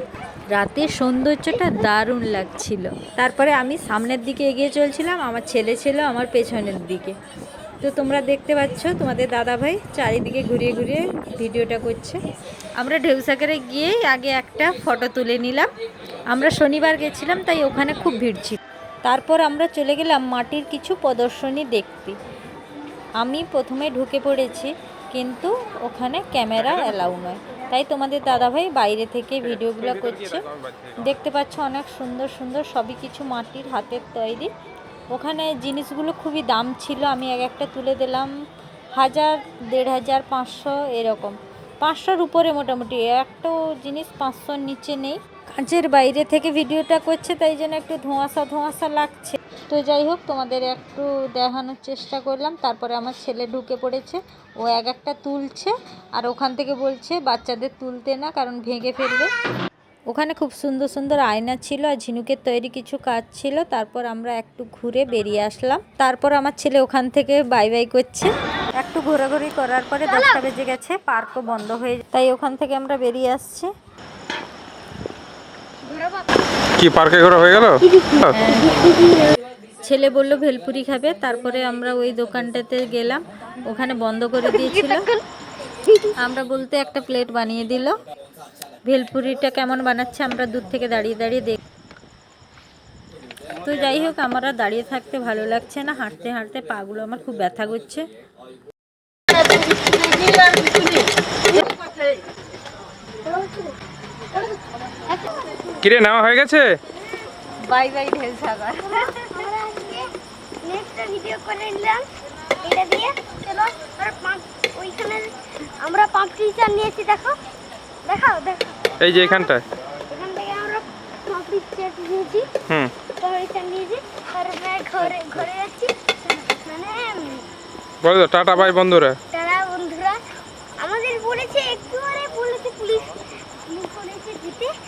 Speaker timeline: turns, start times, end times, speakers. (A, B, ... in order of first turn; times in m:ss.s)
0:00.5-0:07.1 A
0:07.8-0:12.2 A
0:12.8-0:15.7 A
0:16.3-0:22.2 A
0:23.2-0:30.4 A
0:29.4-0:31.1 B
0:31.0-0:34.5 A
0:35.1-0:38.3 A
0:39.0-0:59.3 A
1:00.1-1:13.7 A
1:10.1-1:10.4 C
1:15.9-1:16.2 C
1:16.8-1:18.3 B
1:17.8-1:19.2 C
1:18.3-1:18.8 A
1:19.8-1:25.1 A
1:24.5-1:25.2 C
1:26.2-1:28.0 A
1:28.8-1:31.6 A
1:33.6-1:38.0 A
1:39.5-1:40.7 C
1:43.2-1:43.7 C
1:45.8-1:46.8 B
1:47.6-1:49.0 A
1:48.8-1:50.1 C
1:50.6-1:52.1 C
1:52.6-1:57.4 C
1:58.0-1:58.7 C
1:59.0-1:59.6 B
2:00.1-2:02.5 C
2:02.7-2:02.9 B
2:03.2-2:06.0 C
2:06.5-2:07.5 C
2:08.0-2:09.2 B
2:09.3-2:10.2 C
2:10.8-2:13.2 C
2:13.7-2:14.7 C